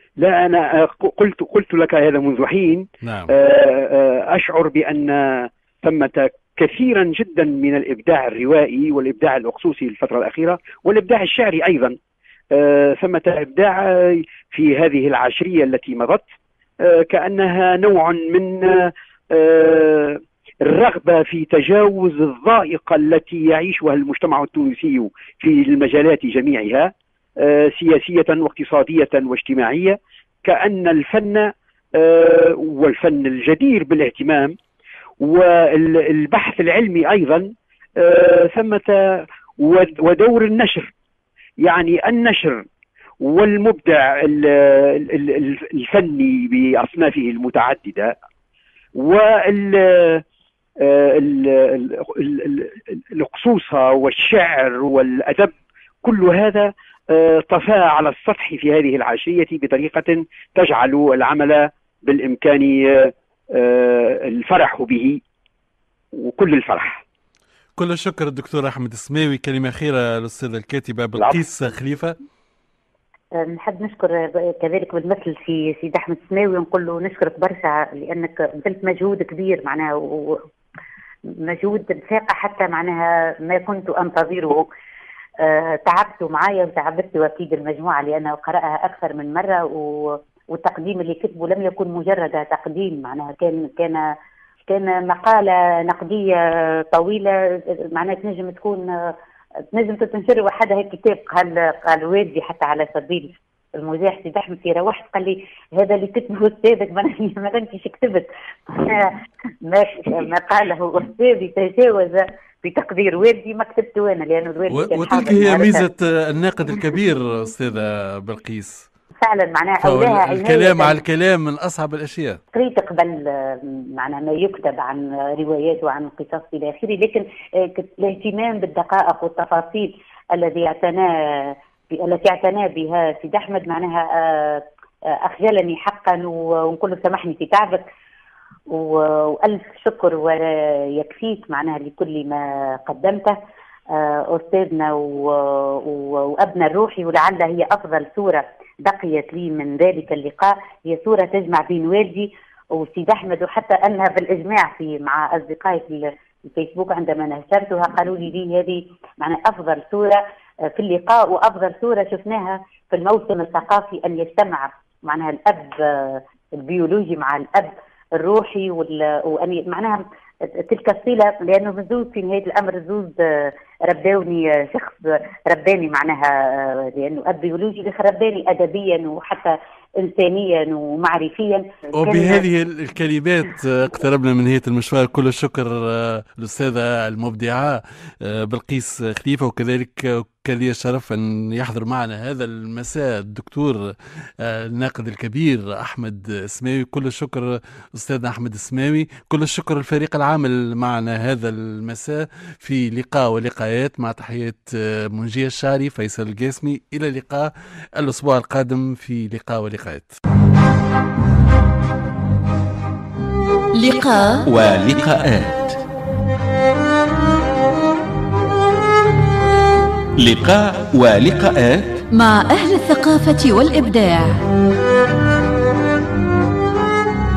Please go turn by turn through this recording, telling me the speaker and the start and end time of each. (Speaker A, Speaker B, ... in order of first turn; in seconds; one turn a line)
Speaker A: 0.2-12.0
Speaker B: 3.0-3.3
Speaker A: 12.5-16.3
Speaker A: 16.8-34.5
Speaker A: 35.2-40.9
Speaker A: 41.6-42.7
Speaker A: 43.2-48.2
Speaker A: 49.0-50.2
Speaker A: 50.8-65.2
Speaker A: 66.2-67.0
Speaker B: 67.8-72.2
Speaker A: 71.2-71.4
Speaker C: 73.4-80.5
Speaker C: 81.4-84.7
Speaker C: 85.4-94.1
Speaker C: 94.7-97.4
Speaker C: 97.9-99.1
Speaker C: 99.7-115.8
Speaker B: 114.7-118.9
Speaker C: 119.2-121.0
Speaker B: 119.8-122.4
Speaker C: 122.5-134.6
Speaker C: 135.2-137.9
Speaker C: 138.7-143.4
Speaker C: 143.9-182.4
Speaker B: 182.0-210.1
Speaker D: 213.8-214.4
Speaker E: 214.5-215.8
Speaker E: 220.2-221.9
Speaker D: 222.2-224.3